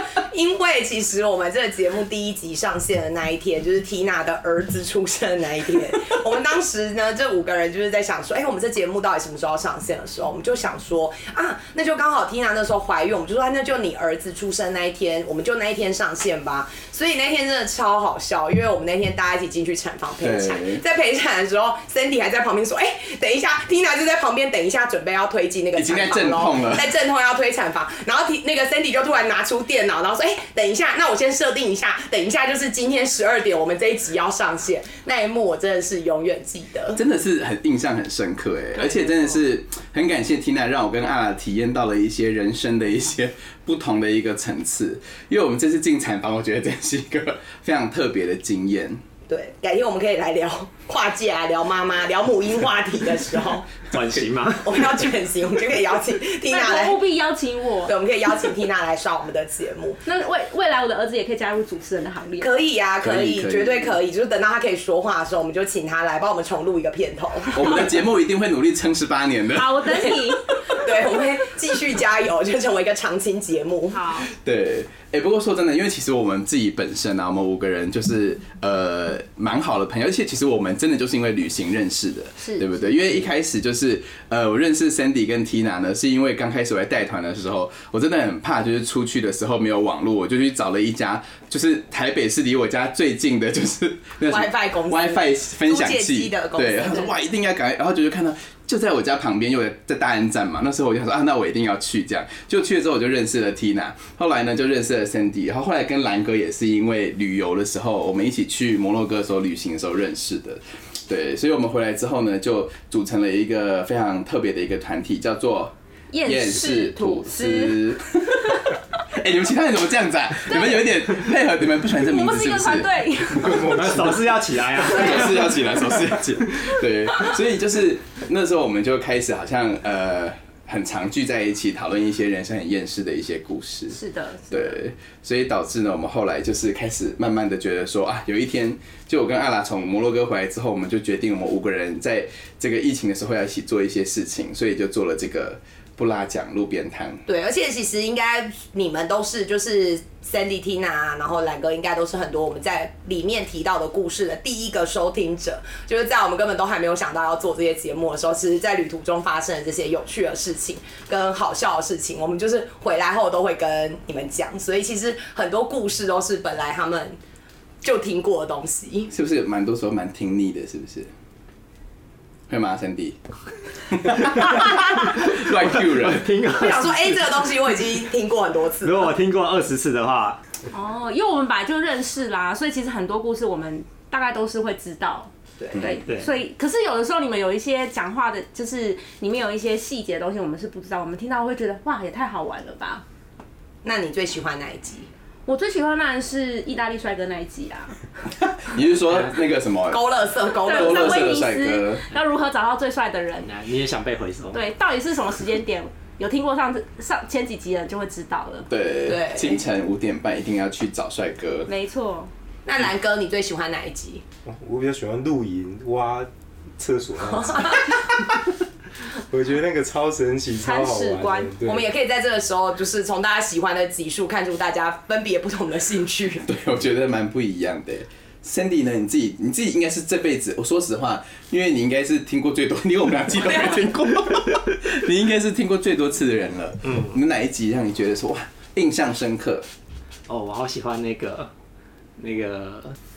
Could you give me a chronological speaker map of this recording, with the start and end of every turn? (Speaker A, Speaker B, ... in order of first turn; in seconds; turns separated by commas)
Speaker A: 0.3-37.0, Speaker B: 20.2-20.8, Speaker B: 25.8-26.9, Speaker B: 37.0-49.0, Speaker C: 38.8-39.4, Speaker A: 49.3-53.7, Speaker D: 53.9-54.8, Speaker A: 54.6-57.0, Speaker C: 56.5-57.9, Speaker A: 57.9-60.0, Speaker C: 60.0-62.5, Speaker A: 62.4-67.6, Speaker B: 63.0-64.0, Speaker B: 67.5-70.2, Speaker C: 69.5-70.8, Speaker A: 70.7-74.0, Speaker C: 73.9-74.3, Speaker B: 74.3-115.7, Speaker C: 82.4-82.8, Speaker A: 94.3-97.1, Speaker C: 116.1-118.7, Speaker B: 116.2-122.9, Speaker C: 120.5-121.2, Speaker C: 121.9-123.8, Speaker E: 123.4-124.2, Speaker D: 123.5-125.6, Speaker B: 123.6-123.8, Speaker B: 124.8-134.0, Speaker C: 133.9-134.8, Speaker B: 134.5-147.2, Speaker A: 147.2-167.2, Speaker A: 167.8-169.1, Speaker B: 169.1-171.1, Speaker B: 172.5-173.2, Speaker B: 173.9-176.2, Speaker D: 174.1-177.3, Speaker A: 176.6-179.1, Speaker D: 178.8-180.4, Speaker C: 180.7-193.0, Speaker A: 185.6-185.9, Speaker A: 193.8-195.1, Speaker C: 195.4-198.0, Speaker B: 198.4-200.1, Speaker A: 199.9-201.2, Speaker C: 200.6-203.5, Speaker B: 200.7-202.0, Speaker D: 203.4-204.6, Speaker C: 204.5-208.7, Speaker B: 208.7-211.7, Speaker A: 209.1-209.6, Speaker C: 211.7-212.3, Speaker A: 212.7-214.2, Speaker E: 214.4-218.0, Speaker E: 219.3-221.9, Speaker C: 220.6-221.6, Speaker A: 221.6-226.4, Speaker B: 226.4-239.7, Speaker D: 236.9-237.1, Speaker D: 240.3-241.5, Speaker D: 242.2-242.9